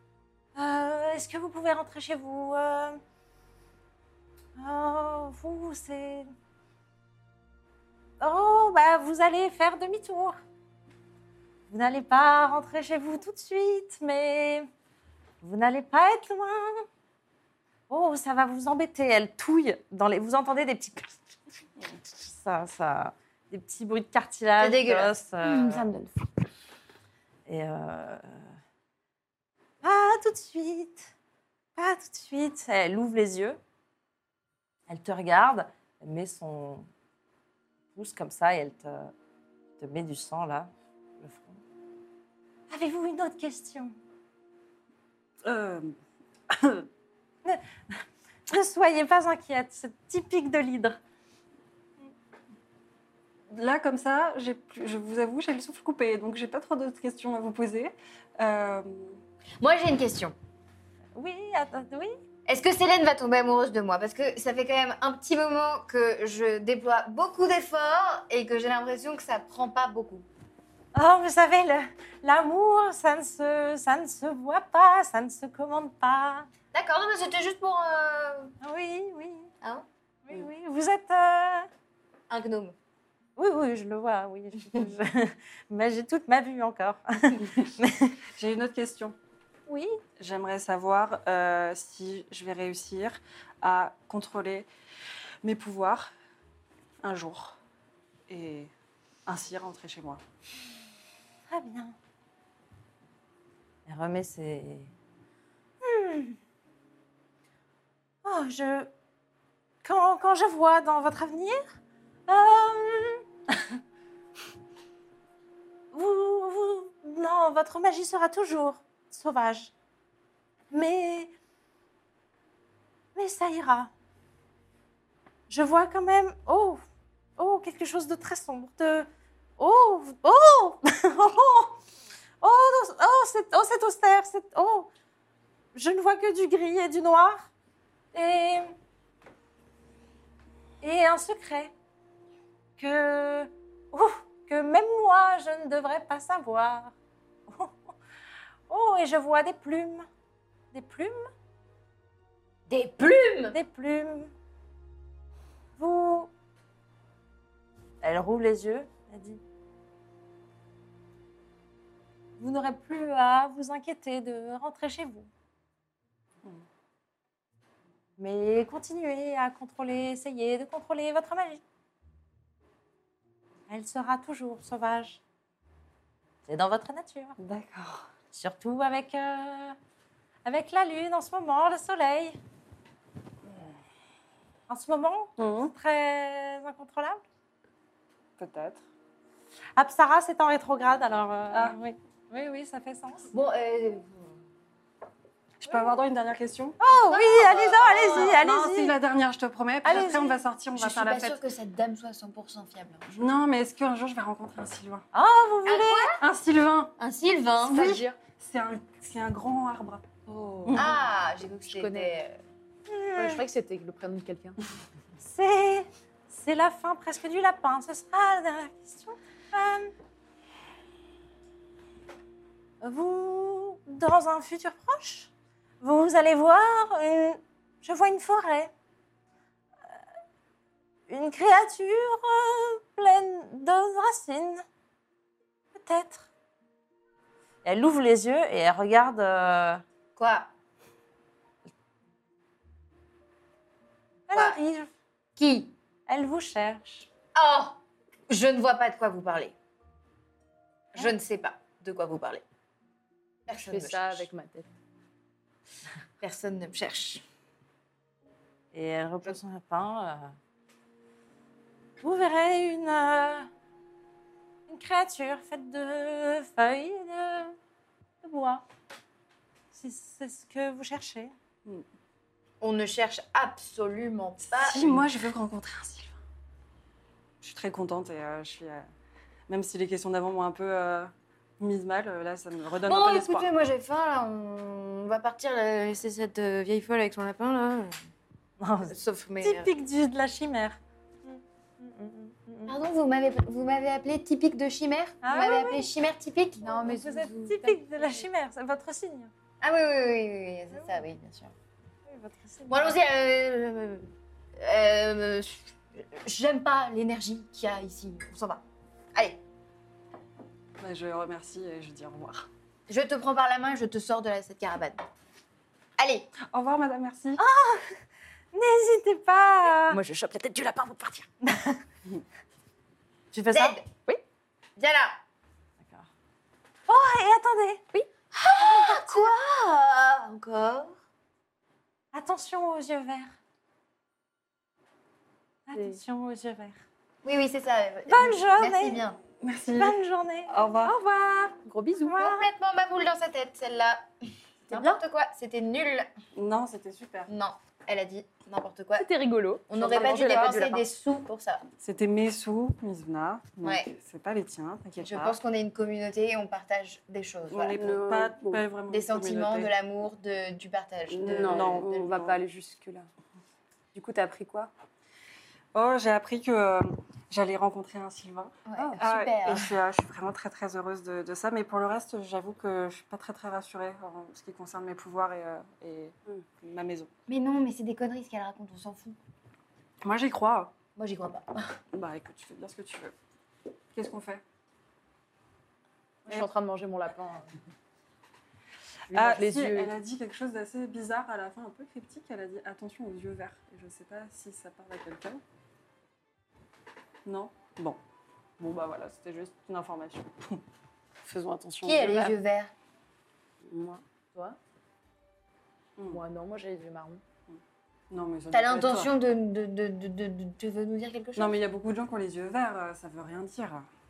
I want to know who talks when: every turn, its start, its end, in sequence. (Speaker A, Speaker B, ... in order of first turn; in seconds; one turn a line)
Speaker A: 0.6-3.0
Speaker A: 4.6-6.3
Speaker A: 8.2-10.4
Speaker A: 11.7-14.7
Speaker A: 15.4-16.9
Speaker A: 17.9-21.4
Speaker A: 22.0-25.9
Speaker B: 24.6-25.1
Speaker C: 25.4-26.2
Speaker A: 27.5-28.4
Speaker A: 29.8-31.1
Speaker A: 31.8-33.6
Speaker A: 34.9-36.9
Speaker A: 37.9-39.1
Speaker A: 39.8-41.6
Speaker A: 42.7-44.0
Speaker D: 45.4-45.9
Speaker D: 46.5-46.9
Speaker A: 48.5-51.0
Speaker D: 53.5-59.2
Speaker B: 59.6-60.4
Speaker A: 61.1-62.2
Speaker B: 62.5-70.3
Speaker A: 70.9-76.5
Speaker B: 76.7-78.5
Speaker A: 78.6-79.5
Speaker A: 80.3-81.7
Speaker B: 82.3-82.8
Speaker A: 83.4-88.2
Speaker D: 88.3-89.2
Speaker A: 89.7-90.0
Speaker D: 90.2-94.7
Speaker D: 95.4-96.1
Speaker D: 97.0-97.6
Speaker D: 98.3-98.7
Speaker D: 99.3-100.2
Speaker A: 101.5-102.0
Speaker A: 103.9-104.9
Speaker A: 105.8-106.4
Speaker A: 108.2-108.9
Speaker A: 109.8-111.8
Speaker A: 112.3-113.7
Speaker A: 115.9-119.7
Speaker A: 120.7-121.3
Speaker A: 123.2-123.9
Speaker A: 125.5-126.8
Speaker A: 127.4-131.8
Speaker A: 132.4-134.9
Speaker A: 135.7-137.5
Speaker A: 138.1-138.7
Speaker A: 140.8-141.7
Speaker A: 142.8-146.9
Speaker A: 147.5-147.8
Speaker A: 148.7-150.1
Speaker A: 150.7-151.3
Speaker B: 152.7-153.6
Speaker A: 153.5-154.3
Speaker A: 155.8-156.3
Speaker A: 158.0-159.4
Speaker A: 162.4-165.3
Speaker A: 168.2-171.6
Speaker A: 173.7-175.2
Speaker A: 176.5-177.4
Speaker D: 177.4-178.1
Speaker A: 178.3-179.8
Speaker A: 180.4-182.4
Speaker A: 184.7-187.2
Speaker D: 185.4-185.7
Speaker D: 188.4-188.8
Speaker A: 189.8-193.3
Speaker D: 191.5-191.8
Speaker B: 193.3-194.3
Speaker D: 195.6-196.8
Speaker A: 196.8-199.0
Speaker B: 197.1-198.4
Speaker D: 198.0-201.4
Speaker A: 199.8-200.4
Speaker B: 200.7-203.2
Speaker D: 203.1-205.1
Speaker A: 205.1-206.1
Speaker B: 205.7-206.2
Speaker D: 206.2-206.9
Speaker B: 207.0-207.9
Speaker C: 207.7-208.2
Speaker D: 207.7-210.1
Speaker C: 210.3-210.9
Speaker D: 210.7-211.0
Speaker B: 210.8-212.4
Speaker C: 211.7-212.1
Speaker A: 212.9-213.4
Speaker C: 213.2-214.6
Speaker A: 215.2-219.9
Speaker A: 222.8-228.7
Speaker A: 231.1-234.6
Speaker A: 235.7-236.3
Speaker A: 237.6-239.8
Speaker B: 240.2-240.5
Speaker A: 244.3-244.9
Speaker B: 244.3-244.6
Speaker B: 245.4-245.7
Speaker A: 246.1-247.1
Speaker B: 247.3-249.6
Speaker B: 250.9-252.4
Speaker B: 253.5-254.3
Speaker C: 253.5-254.7
Speaker B: 256.2-257.2
Speaker A: 258.7-260.3
Speaker A: 262.0-263.5
Speaker A: 264.7-267.6
Speaker A: 268.2-268.6
Speaker A: 269.7-271.3
Speaker B: 272.6-275.1
Speaker D: 274.4-276.2
Speaker D: 277.4-278.9
Speaker D: 279.5-283.5
Speaker B: 282.8-288.0
Speaker A: 288.6-292.8
Speaker B: 288.9-289.7
Speaker B: 292.7-297.3
Speaker A: 295.2-295.9
Speaker C: 296.6-298.3
Speaker A: 296.8-299.3
Speaker B: 299.6-301.5
Speaker A: 302.1-302.9
Speaker B: 302.7-308.6
Speaker B: 309.1-309.4
Speaker D: 310.8-312.5
Speaker B: 312.9-315.0
Speaker B: 316.0-316.3
Speaker D: 316.4-317.4
Speaker A: 317.4-317.9
Speaker A: 318.5-320.0
Speaker C: 319.9-321.3
Speaker A: 321.4-321.8
Speaker A: 323.3-323.8
Speaker B: 323.5-323.9
Speaker B: 324.8-325.2
Speaker A: 325.8-326.1
Speaker A: 326.9-327.9
Speaker B: 328.4-331.0
Speaker A: 328.4-329.4
Speaker A: 332.1-333.4
Speaker A: 335.7-336.8
Speaker C: 335.7-336.0
Speaker B: 337.2-339.2
Speaker A: 338.1-339.0
Speaker D: 339.4-341.0
Speaker A: 339.8-340.6
Speaker C: 340.9-342.2
Speaker A: 342.1-342.5
Speaker B: 342.2-344.1
Speaker B: 344.7-346.1
Speaker C: 344.7-345.0
Speaker D: 346.3-347.3
Speaker B: 347.3-349.1
Speaker C: 349.0-350.8
Speaker B: 349.7-351.6
Speaker D: 351.8-355.4
Speaker B: 353.6-353.9
Speaker B: 355.0-357.8
Speaker D: 357.5-359.7
Speaker E: 357.7-358.6
Speaker B: 358.9-362.1
Speaker E: 361.1-363.1
Speaker D: 361.2-362.4
Speaker E: 363.9-364.7
Speaker D: 365.7-377.1
Speaker B: 368.7-369.7
Speaker B: 377.3-379.2
Speaker D: 380.0-380.7
Speaker B: 381.0-381.8
Speaker D: 381.9-383.1
Speaker D: 383.9-384.4
Speaker C: 386.3-387.5
Speaker C: 389.1-389.9
Speaker D: 389.1-395.4
Speaker D: 397.2-398.0
Speaker D: 398.6-400.6
Speaker E: 401.2-402.4
Speaker B: 401.8-402.7
Speaker E: 403.6-404.0
Speaker C: 406.1-407.2
Speaker D: 408.1-409.2
Speaker B: 408.5-411.6
Speaker D: 411.4-413.9